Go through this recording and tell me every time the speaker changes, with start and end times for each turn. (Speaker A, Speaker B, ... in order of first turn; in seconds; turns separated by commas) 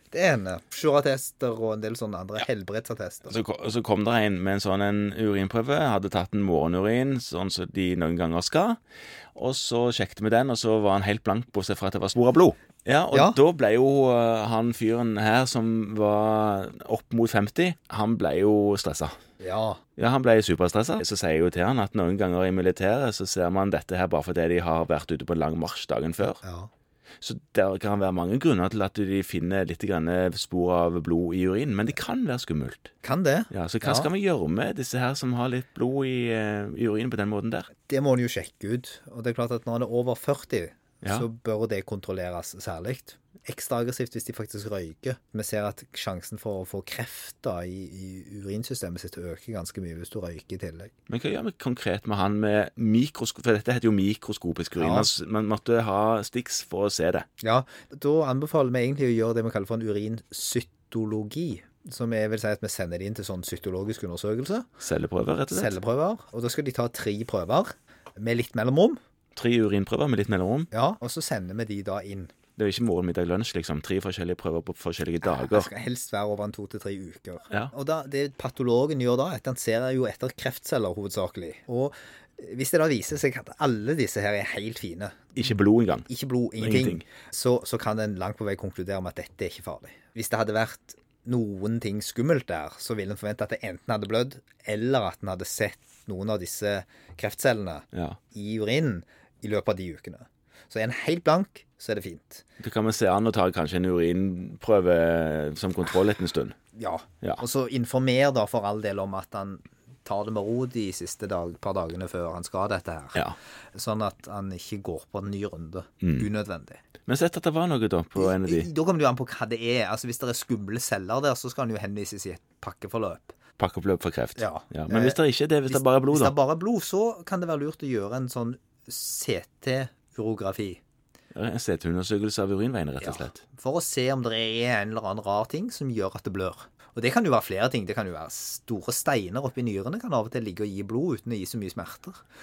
Speaker A: 0.1-3.4, Speaker B: 3.3-8.8, Speaker B: 9.3-19.2, Speaker A: 13.1-13.4, Speaker A: 19.4-19.8, Speaker B: 20.0-26.4, Speaker A: 26.4-26.7, Speaker B: 27.2-32.9, Speaker A: 33.0-34.1, Speaker B: 33.5-37.7, Speaker A: 37.9-50.9, Speaker B: 51.1-57.3, Speaker A: 54.8-55.1, Speaker A: 57.4-64.7, Speaker B: 64.8-65.8, Speaker A: 65.5-69.0, Speaker B: 69.4-70.7, Speaker A: 70.7-72.3, Speaker B: 72.6-75.7, Speaker A: 75.2-85.3, Speaker B: 85.3-86.1, Speaker A: 86.1-102.5, Speaker B: 86.6-87.0, Speaker B: 97.9-98.2, Speaker B: 102.6-106.6, Speaker A: 106.7-116.8, Speaker B: 116.0-116.3, Speaker B: 117.1-118.7, Speaker A: 118.2-123.3, Speaker B: 123.6-126.3, Speaker A: 124.4-130.8, Speaker B: 131.3-133.4, Speaker A: 133.0-142.2